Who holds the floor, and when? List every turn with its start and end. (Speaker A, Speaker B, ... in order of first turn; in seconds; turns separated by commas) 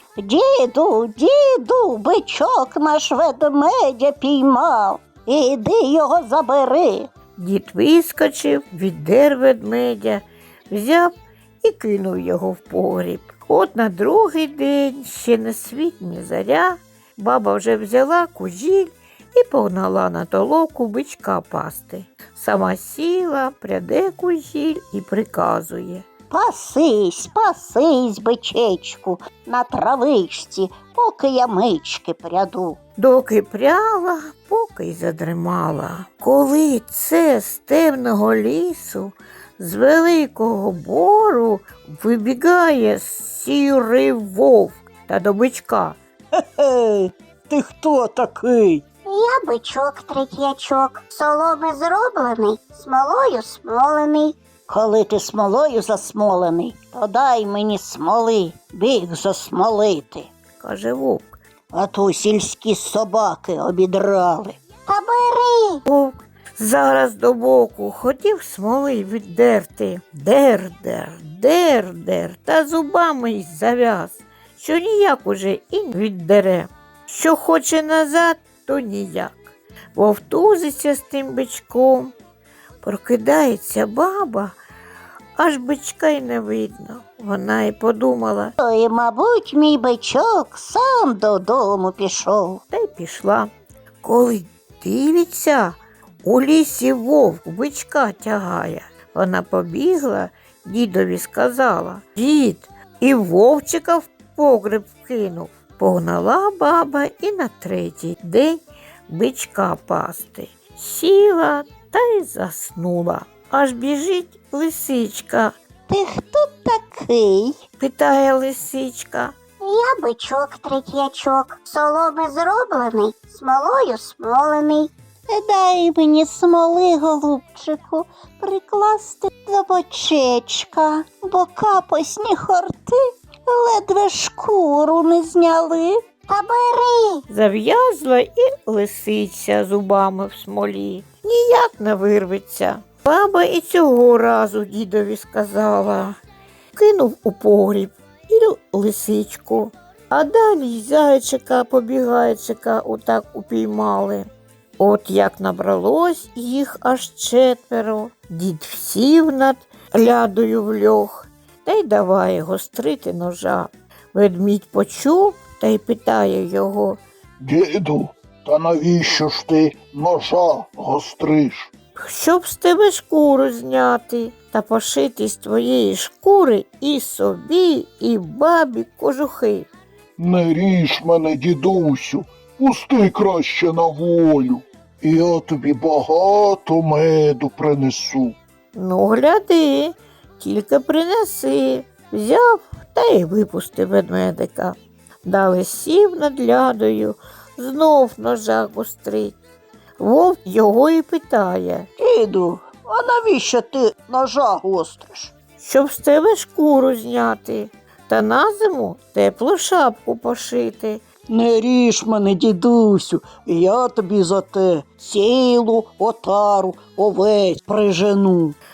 Speaker A: 0.2-7.1, Speaker B: 7.3-26.1, Speaker A: 26.3-32.8, Speaker B: 33.0-46.0, Speaker A: 46.6-48.8, Speaker C: 49.1-54.3, Speaker A: 54.7-60.3, Speaker B: 60.6-61.4, Speaker A: 61.7-64.5, Speaker C: 64.9-65.8, Speaker B: 65.8-82.1, Speaker B: 82.8-84.5, Speaker B: 85.4-88.5, Speaker A: 88.6-92.6, Speaker B: 92.7-93.5, Speaker B: 94.0-115.5, Speaker A: 115.9-117.5, Speaker B: 117.8-119.3, Speaker C: 119.6-124.9, Speaker A: 125.3-136.0, Speaker C: 136.3-137.2, Speaker B: 137.3-146.1, Speaker B: 146.7-154.3, Speaker B: 154.8-167.0, Speaker D: 167.4-171.7, Speaker B: 172.0-179.7, Speaker D: 180.2-188.3, Speaker B: 188.7-199.4, Speaker B: 200.0-201.9, Speaker A: 202.0-205.3, Speaker B: 205.6-211.0, Speaker A: 211.3-218.5